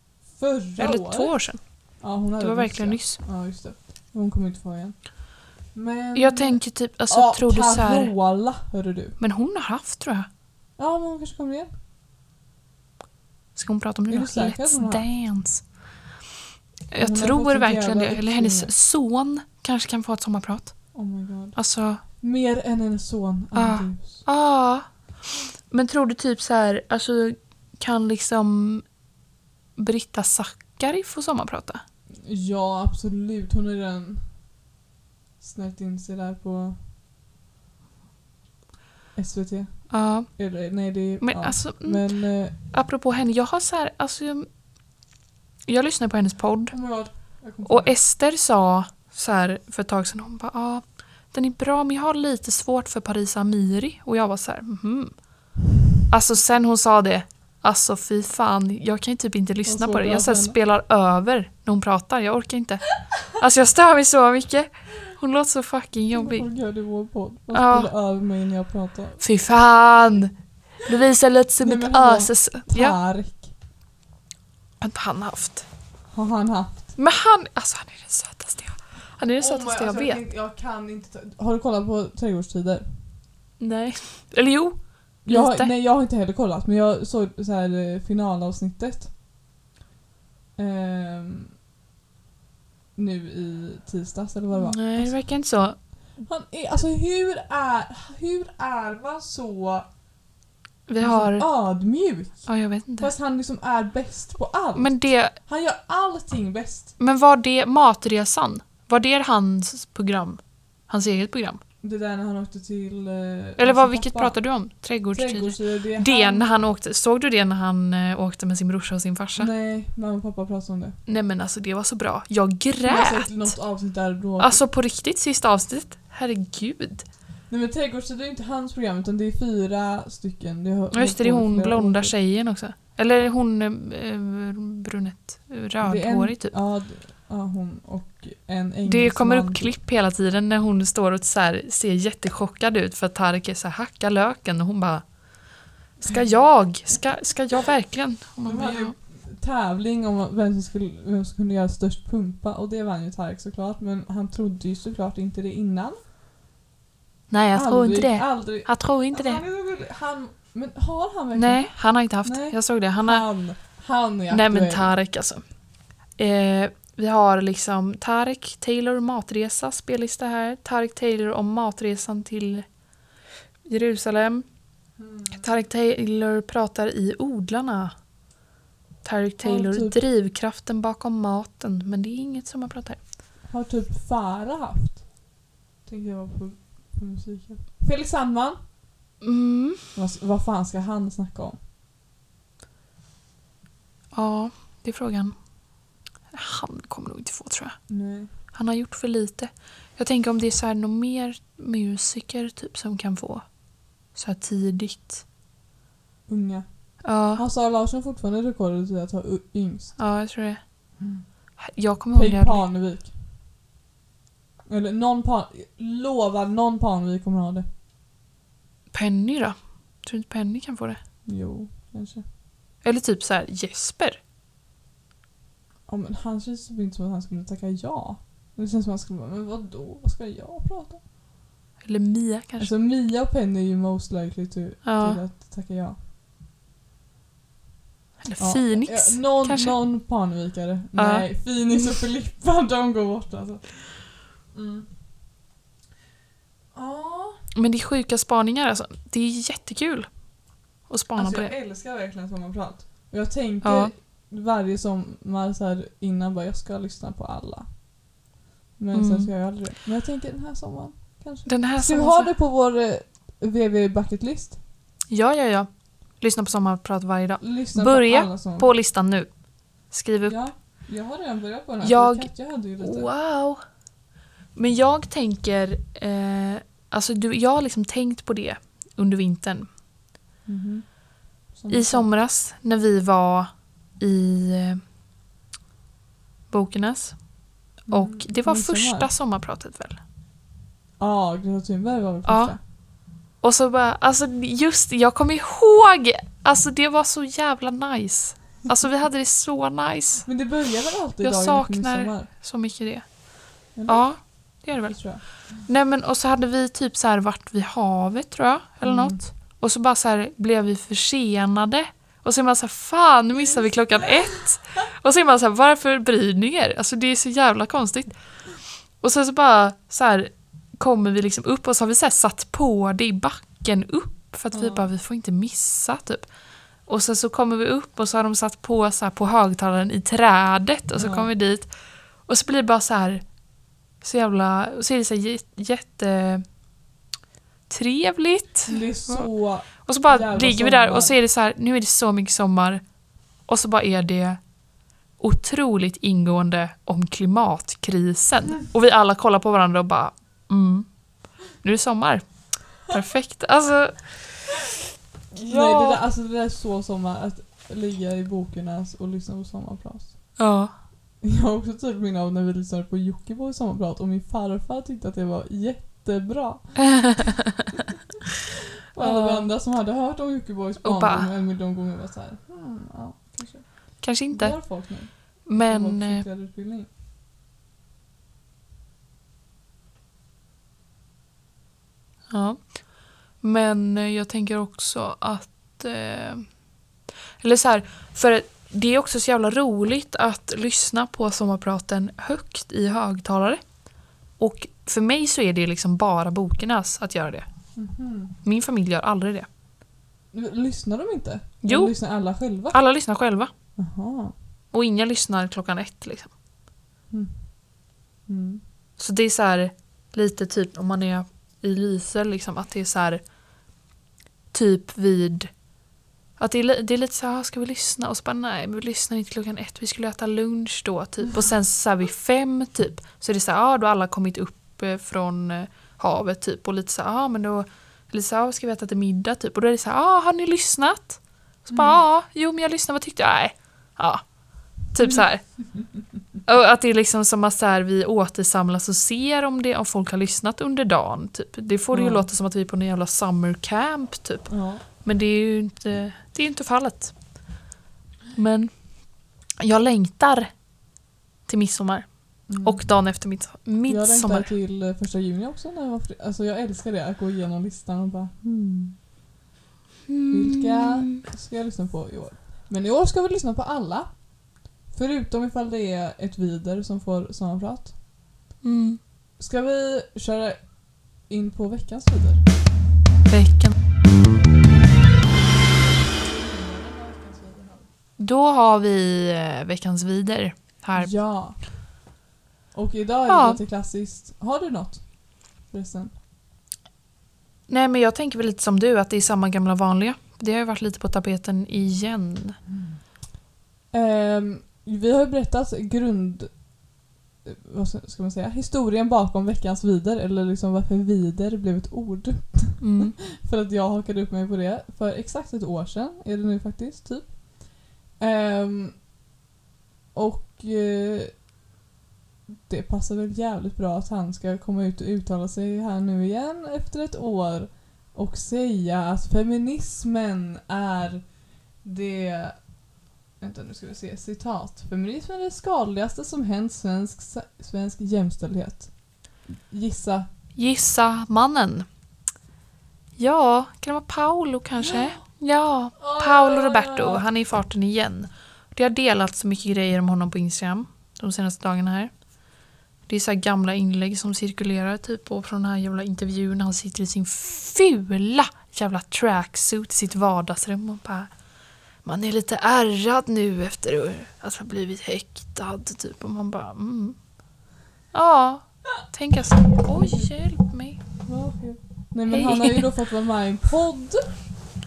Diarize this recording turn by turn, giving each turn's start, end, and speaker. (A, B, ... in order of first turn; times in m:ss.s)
0:00.3-0:09.2 A
0:00.8-0:03.2 B
0:06.1-0:08.1 B
0:09.2-0:10.3 B
0:10.8-0:11.7 A
0:13.5-0:15.7 B
0:14.1-0:15.1 A
0:16.9-0:22.0 B
0:17.0-0:18.7 A
0:20.9-0:24.3 A
0:23.5-0:29.0 B
0:29.8-0:31.8 B
0:32.2-0:34.4 A
0:35.4-0:36.8 A
0:39.1-0:42.6 A
0:39.9-0:44.5 B
0:45.6-0:55.6 B
0:46.7-0:48.0 A
0:56.1-1:06.5 B
0:59.6-1:00.6 A
1:06.1-1:09.2 A
1:07.5-1:07.9 B
1:09.2-1:13.0 B
1:11.6-1:13.5 A
1:14.8-1:15.7 B
1:16.1-1:17.0 A
1:17.0-1:20.2 B
1:19.4-1:23.0 A
1:23.6-1:25.7 B
1:25.2-1:29.1 A
1:30.6-1:31.5 A
1:32.9-1:35.3 A
1:34.5-1:35.8 B
1:35.8-1:39.9 A
1:40.9-1:41.9 B
1:41.0-1:47.0 A
1:42.5-1:43.1 B
1:44.7-1:45.4 B
1:47.0-1:51.6 B
1:51.8-1:56.4 A
1:53.6-1:59.5 B
1:59.4-2:01.0 A
2:01.0-2:03.7 B
2:02.9-2:04.6 A
2:04.4-2:07.1 B
2:07.5-2:12.2 A
2:10.9-2:16.6 B
2:15.8-2:19.7 A
2:18.9-2:25.5 B
2:26.0-2:29.0 B
2:26.0-2:26.4 A
2:28.4-2:36.0 A
2:37.3-2:39.4 B
2:37.5-2:45.0 A
2:41.4-2:43.6 B
2:44.3-2:52.9 B
2:53.6-2:54.8 B
2:55.0-2:55.4 A
2:55.3-2:58.1 B
2:59.0-3:03.1 B
2:59.4-3:00.0 A
3:03.4-3:05.3 A
3:05.8-3:08.6 A
3:09.2-3:09.9 B
3:09.9-3:11.6 A
3:14.1-3:25.2 B
3:17.9-3:18.3 A
3:26.3-3:30.0 A
3:27.0-3:27.4 B
3:30.0-3:31.0 B
3:31.0-3:31.6 A
3:31.6-3:32.6 B
3:32.1-3:33.1 A
3:34.7-3:37.6 A
3:38.9-3:41.0 B
3:41.2-3:42.2 A
3:42.8-3:44.2 B
3:45.9-3:51.0 A
3:51.8-3:52.7 B
3:52.6-3:56.0 A
3:54.8-3:55.2 B
3:58.2-3:59.8 B
3:58.4-4:04.9 A
4:01.0-4:01.5 B
4:06.7-4:07.4 A
4:07.5-4:11.5 B
4:11.2-4:18.1 A
4:13.6-4:13.9 B
4:18.8-4:24.6 A
4:18.9-4:19.3 B
4:21.4-4:22.3 B
4:25.1-4:30.4 B
4:27.4-4:28.8 A
4:30.2-4:33.1 A
4:31.8-4:33.6 B
4:34.5-4:39.7 B
4:40.4-4:42.1 A
4:41.7-4:44.8 B
4:46.5-4:50.0 B
4:47.9-4:49.1 A
4:51.0-4:52.6 A
4:52.2-5:00.3 B
5:00.2-5:02.3 A
5:01.2-5:36.4 B
5:03.7-5:05.2 A
5:08.8-5:09.2 A
5:13.4-5:14.1 A
5:24.5-5:24.9 A
5:31.0-5:31.3 A
5:37.7-5:54.4 B
5:38.7-5:41.1 A
5:55.4-6:00.5 A
5:55.5-5:56.0 B
6:00.4-6:00.7 B
6:01.2-6:07.2 A
6:08.9-6:16.9 A
6:09.0-6:09.5 B
6:10.8-6:11.3 B
6:14.0-6:16.2 B
6:22.3-6:26.7 B
6:27.4-6:39.5 B
6:37.7-6:38.4 A
6:40.3-6:42.8 A
6:41.6-6:43.5 B
6:43.8-6:44.3 A
6:44.7-6:46.4 B
6:47.1-6:48.6 A
6:49.0-6:53.4 B
6:54.5-6:55.8 B
6:56.4-7:15.9 B
7:11.7-7:12.0 A
7:15.0-7:16.1 A
7:16.4-7:27.5 B
7:21.9-7:22.3 A
7:24.5-7:24.8 A
7:28.3-7:30.8 B
7:31.4-7:34.5 B
7:32.5-7:33.3 A
7:33.8-7:39.0 A
7:40.1-7:41.2 B
7:40.3-7:48.0 A
7:48.6-7:49.0 B
7:49.4-7:52.4 A
7:53.3-7:53.7 B
7:56.1-7:57.9 A
7:58.2-8:01.2 B
8:01.0-8:02.0 A
8:02.7-8:06.1 A
8:03.3-8:03.6 B
8:07.7-8:12.6 B
8:13.9-8:16.8 A
8:17.4-8:29.0 A
8:22.8-8:23.2 B
8:30.1-8:31.4 A
8:32.6-8:42.8 A
8:43.4-8:50.3 A
8:50.5-8:51.8 B
8:53.2-9:17.4 B
8:54.8-8:55.2 A
8:56.0-8:57.2 A
9:18.1-9:21.0 B
9:19.8-9:24.5 A
9:22.3-9:22.9 B